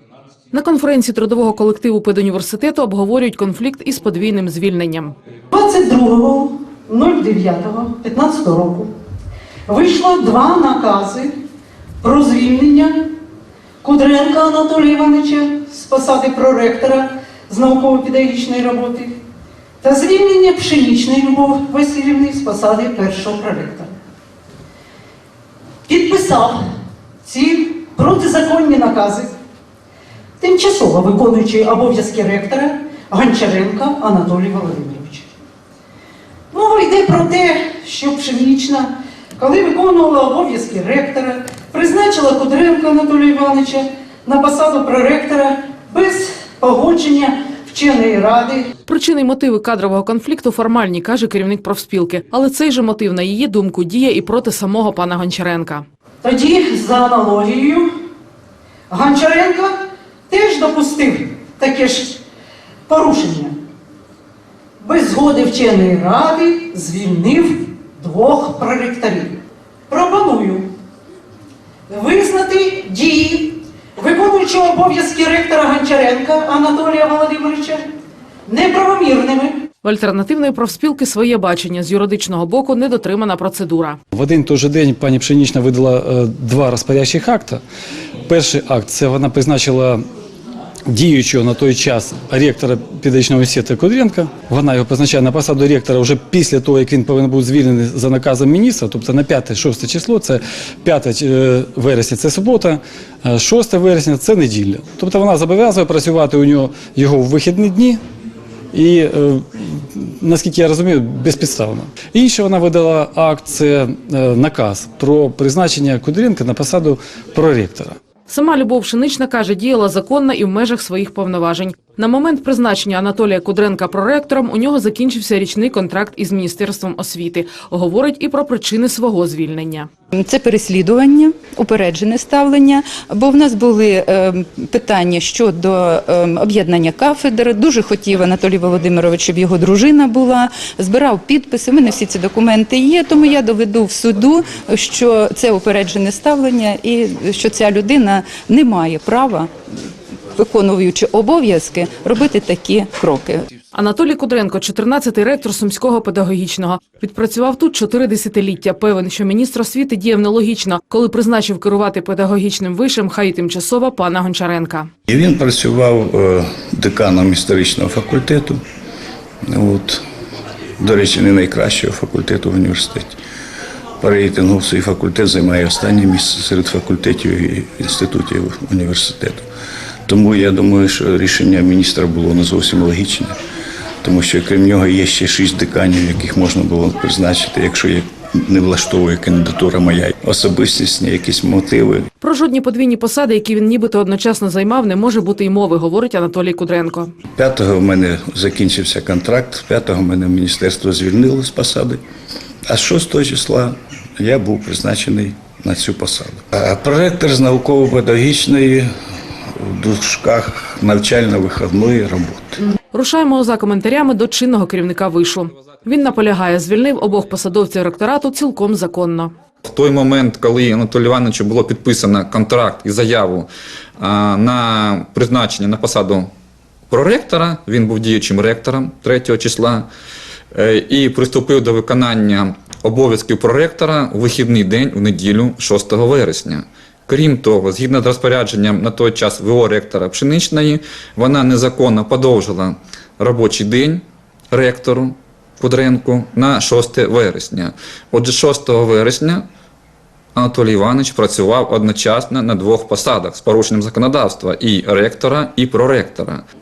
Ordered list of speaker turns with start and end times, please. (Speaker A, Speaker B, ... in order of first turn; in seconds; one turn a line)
Speaker A: 0.5-5.1
Speaker B: 5.5-8.9
Speaker B: 9.7-11.3
Speaker B: 12.0-12.9
Speaker B: 13.8-19.1
Speaker B: 19.8-23.9
Speaker B: 25.9-26.6
Speaker B: 27.2-29.3
Speaker B: 30.4-35.3
Speaker B: 36.5-48.7
Speaker A: 48.9-55.8
Speaker B: 56.2-57.9
Speaker B: 58.9-59.7
Speaker B: 60.3-62.2
Speaker B: 62.9-63.5
Speaker B: 64.8-69.3
Speaker B: 69.9-70.7
Speaker B: 71.9-77.8
Speaker B: 78.5-79.6
Speaker A: 79.8-84.0
Speaker C: 84.1-87.6
Speaker C: 88.2-90.0
Speaker C: 90.9-108.0
Speaker C: 108.7-118.0
Speaker A: 118.3-129.9
Speaker D: 130.1-149.5
Speaker D: 150.3-153.4
Speaker A: 153.7-164.9
Speaker E: 165.1-168.6
Speaker E: 169.5-170.0
Speaker E: 170.8-173.2
Speaker E: 174.0-179.4
Speaker E: 180.1-183.3
Speaker E: 184.0-192.1
Speaker A: 192.2-197.1
Speaker E: 197.3-202.0
Speaker E: 202.7-208.9
Speaker E: 209.6-212.6
Speaker A: 212.9-219.3
Speaker F: 219.6-223.5
Speaker F: 224.0-226.3
Speaker F: 226.9-229.9
Speaker F: 230.5-249.4
Speaker F: 250.3-256.4